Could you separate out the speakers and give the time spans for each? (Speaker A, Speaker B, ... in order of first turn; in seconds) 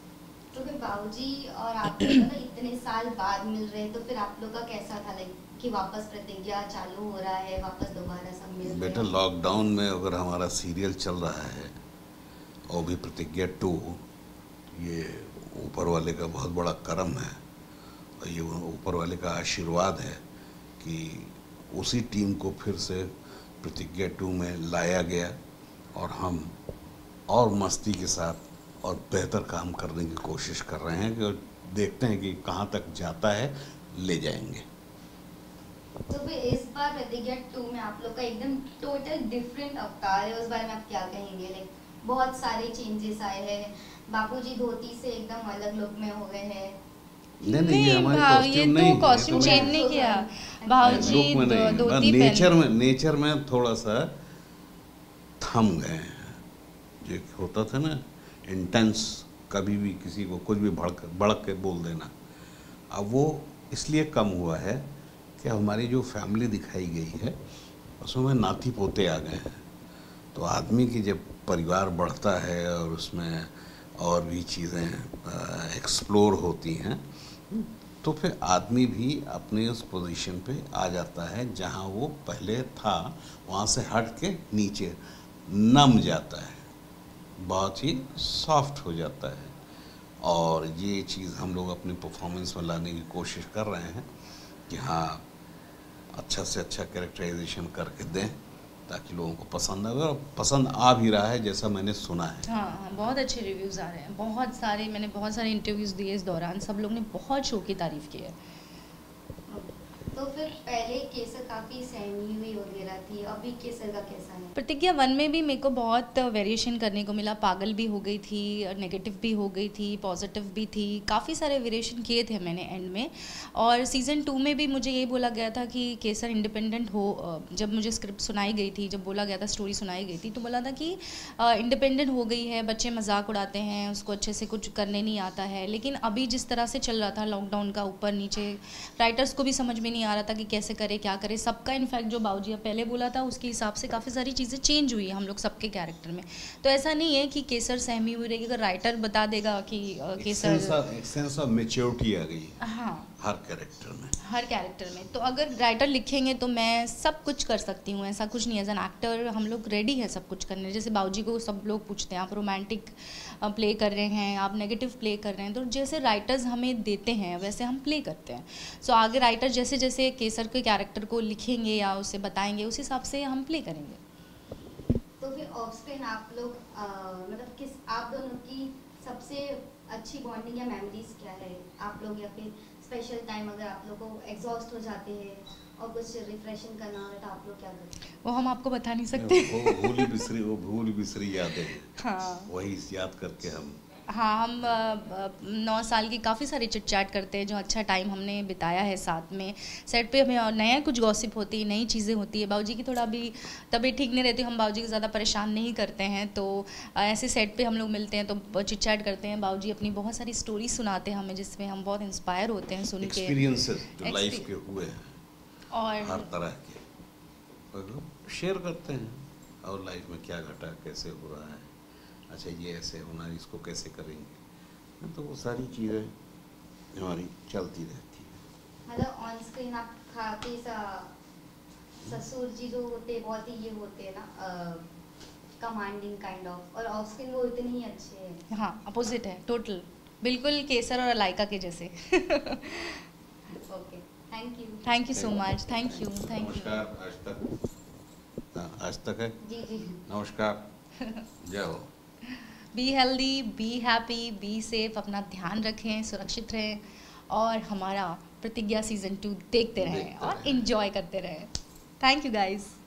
Speaker A: 0.5-9.1, 36.1-46.8, 49.3-51.8, 109.5-114.5, 175.2-187.9, 228.9-231.1, 232.0-234.8, 235.6-238.4, 243.6-244.8, 249.4-250.0
Speaker B: 8.6-11.8, 12.7-14.1, 14.7-17.4, 18.2-20.2, 20.8-25.4, 25.9-26.5, 27.3-34.6, 47.4-49.8, 50.8-54.1, 55.4-56.4, 57.0-62.1, 62.9-64.9, 65.4-67.3, 68.0-69.6, 70.3-86.7, 87.4-89.5, 90.2-94.1, 94.7-95.2, 96.1-102.5, 150.2-152.6, 153.2-154.2, 189.1-191.9, 192.5-193.8, 213.0-215.1, 216.0-216.8, 217.7-221.7, 222.3-224.4, 225.0-226.1, 226.9-228.4, 245.1-247.5, 248.5-249.4, 250.1-250.7, 251.4-251.9, 259.8-260.7
Speaker C: 47.4-52.5, 102.5-108.3, 114.6-150.8, 152.6-153.1, 154.2-174.0, 188.2-190.2, 191.6-192.5, 194.1-214.5, 215.7-216.3, 238.5-243.0, 244.8-246.9, 252.3-262.8